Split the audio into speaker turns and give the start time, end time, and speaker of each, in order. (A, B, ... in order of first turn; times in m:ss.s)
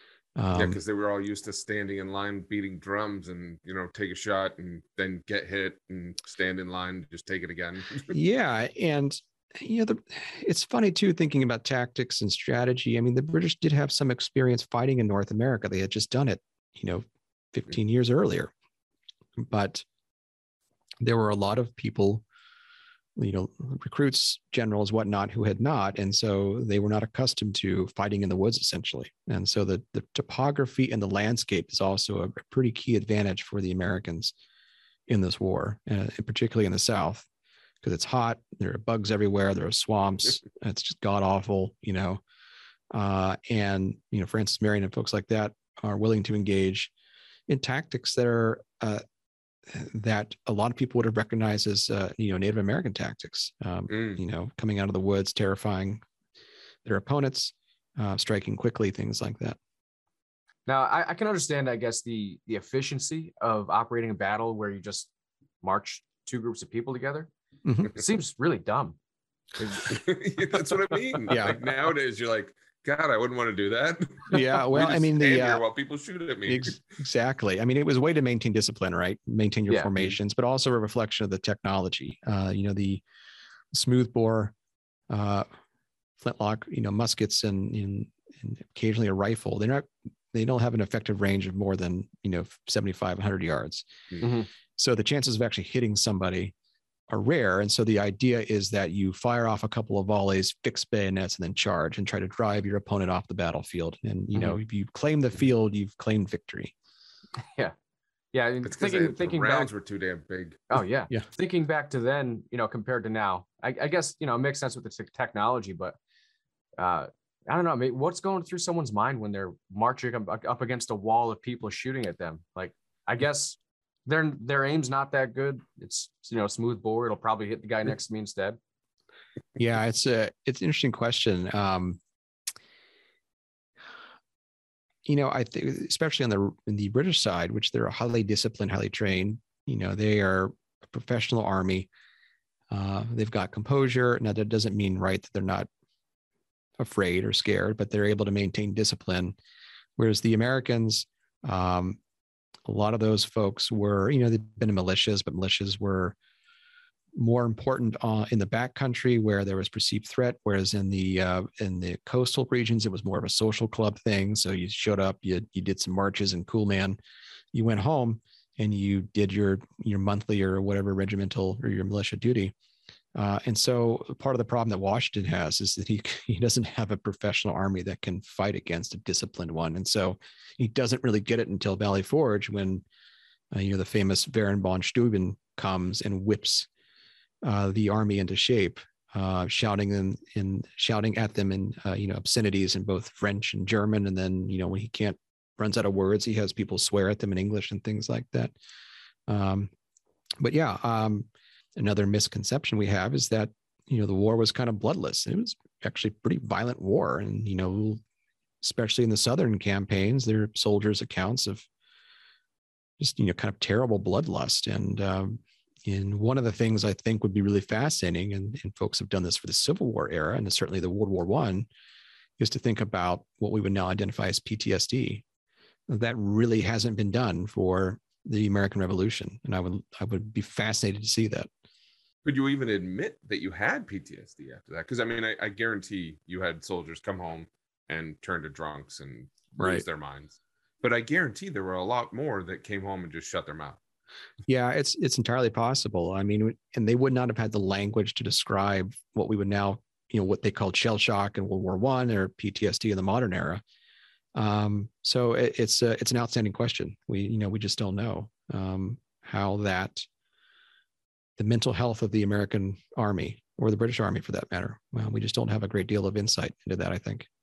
0:00.4-0:00.8 A
0:00.5-0:08.2 B
0:08.1-0:18.5 A
0:19.4-0:19.8 A
0:21.0-0:22.2 A
0:23.2-0:34.3 A
0:35.1-0:37.3 A
0:37.8-0:42.2 A
0:42.9-0:46.9 A
0:47.5-0:49.0 A
0:49.7-0:56.0 A
0:53.9-0:54.2 B
0:56.8-0:59.6 A
1:00.7-1:05.1 C
1:05.6-1:07.3 C
1:07.6-1:07.9 A
1:07.9-1:09.0 C
1:09.6-1:10.0 C
1:09.9-1:16.8 B
1:10.9-1:11.4 C
1:11.3-1:11.6 A
1:14.3-1:15.6 A
1:16.4-1:23.0 A
1:23.7-1:24.5 A
1:25.1-1:25.4 A
1:26.2-1:33.9 A
1:34.2-1:34.5 C
1:34.8-1:36.5 A
1:37.1-1:46.7 A
1:47.4-1:47.7 C
1:48.3-1:49.7 C
1:48.6-1:50.8 B
1:50.7-1:56.0 C
1:56.8-2:08.6 C
2:09.6-2:12.0 A
2:15.0-2:21.9 A
2:22.7-2:25.7 A
2:26.8-2:29.4 A
2:30.0-2:32.0 A
2:32.6-2:36.2 A
2:37.1-2:47.0 A
2:47.5-2:52.5 A
2:53.1-3:02.8 A
3:03.5-3:06.7 A
3:07.4-3:18.5 A
3:19.3-3:19.7 A
3:20.4-3:28.0 A
3:28.6-3:31.6 A
3:33.0-3:41.7 A
3:42.4-3:45.2 A
3:45.9-3:51.5 A
3:52.2-4:03.8 B
4:04.5-4:13.6 A
4:14.3-4:20.0 A
4:21.4-4:27.3 A